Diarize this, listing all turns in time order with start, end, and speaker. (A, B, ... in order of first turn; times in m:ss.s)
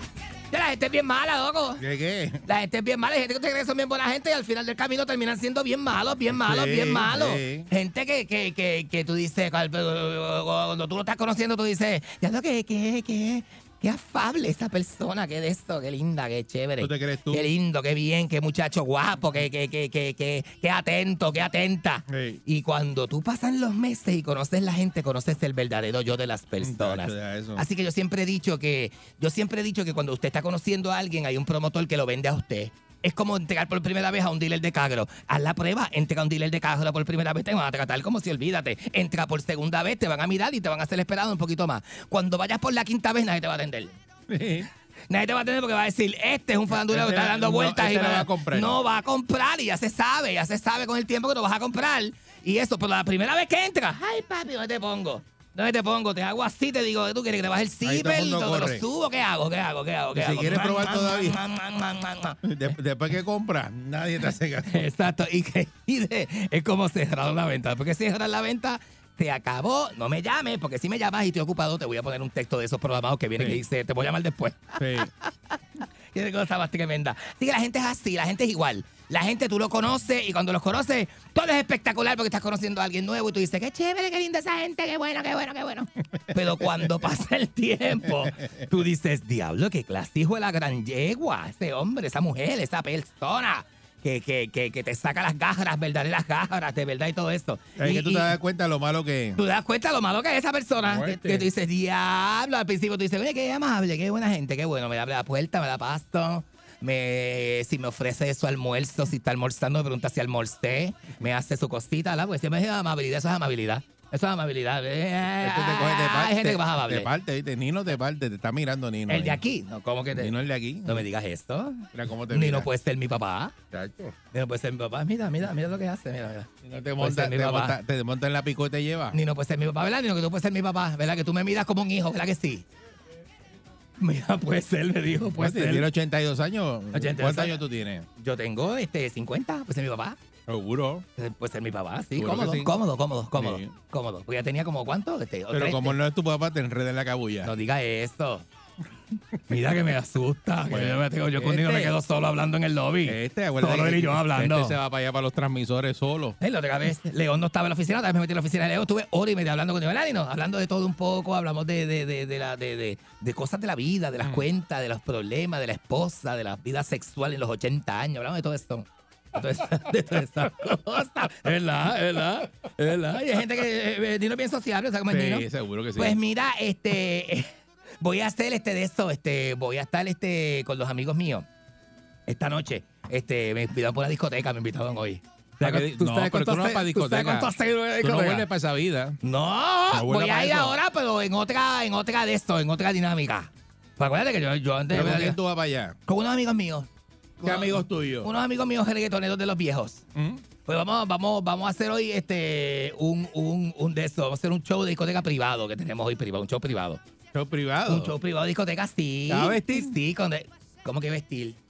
0:00.5-0:01.8 A
0:01.8-0:02.4 B
0:02.4-0:43.9 A
0:06.3-0:07.7 B
0:16.8-0:17.5 B
0:22.1-0:22.4 B
0:26.6-0:27.6 B
0:44.3-0:44.7 B
0:45.1-1:02.4 A
0:46.7-0:48.8 B
0:57.8-0:58.8 B
1:00.1-1:01.4 B
1:02.4-1:04.9 B
1:04.7-1:15.3 A
1:14.8-1:15.1 B
1:16.1-1:38.3 A
1:26.3-1:26.9 B
1:37.8-1:39.4 B
1:39.4-1:57.1 A
1:40.8-1:41.5 B
1:55.4-1:59.4 B
1:59.1-2:00.3 A
2:00.1-2:01.0 B
2:00.8-2:03.5 A
2:01.9-2:02.7 B
2:03.7-2:04.1 B
2:04.3-2:07.8 A
2:06.6-2:09.2 B
2:09.1-2:12.6 A
2:14.0-2:15.8 A
2:15.4-2:18.1 B
2:16.9-2:17.6 A
2:18.2-2:20.2 A
2:20.5-2:21.0 B
2:21.2-2:26.0 A
2:22.2-2:22.7 B
2:23.3-2:23.7 B
2:25.5-2:27.5 B
2:27.4-2:28.4 A
2:29.5-2:34.8 A
2:30.7-2:32.0 B
2:33.0-2:36.4 B
2:36.4-2:57.5 A
2:55.1-2:56.2 B
2:58.0-3:01.4 A
3:02.3-3:08.5 A
3:05.6-3:09.2 B
3:09.2-3:15.4 A
3:09.9-3:10.8 B
3:14.9-3:16.0 B
3:16.1-3:16.9 A
3:17.4-3:18.3 B
3:17.4-3:20.0 A
3:20.1-3:20.4 B
3:20.6-3:27.0 A
3:27.3-3:28.1 B
3:27.9-3:31.6 A
3:29.3-3:29.9 B